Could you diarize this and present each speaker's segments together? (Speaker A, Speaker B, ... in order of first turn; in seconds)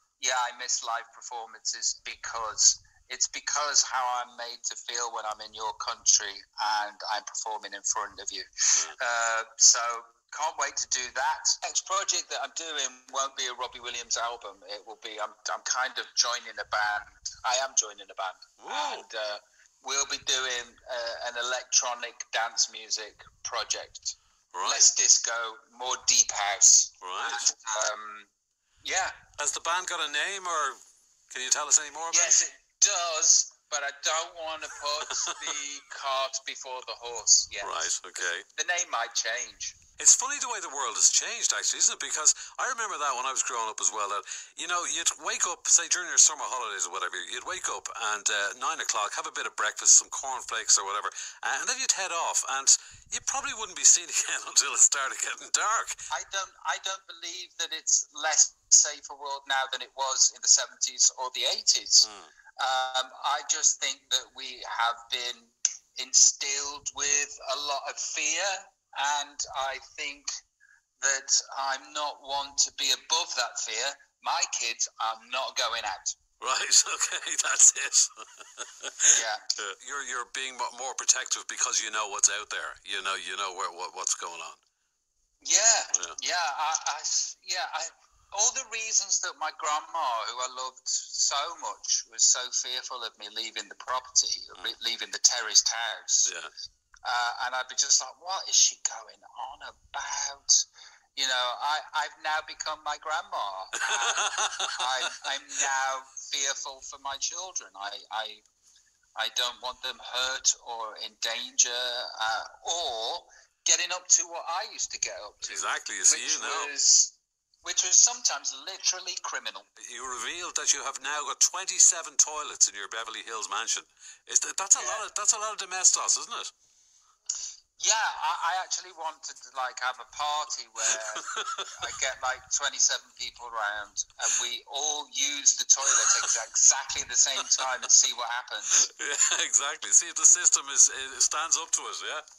Speaker A: 0.2-28.3, 28.8-29.1, 32.1-39.8, 56.1-62.1, 62.6-70.3, 71.0-76.2, 79.1-79.4, 85.4-96.3, 97.0-108.4, 109.2-119.7, 124.7-125.0, 127.8-138.9
Speaker B: 18.6-19.1, 24.5-24.9, 27.0-27.4, 29.4-30.8, 31.3-32.4, 37.6-38.5, 40.0-56.0, 62.0-62.3, 76.4-84.6, 96.2-96.5, 103.8-105.7, 115.4-116.7, 119.8-126.5, 130.8-131.7, 135.9-136.3, 137.4-137.7, 138.7-142.2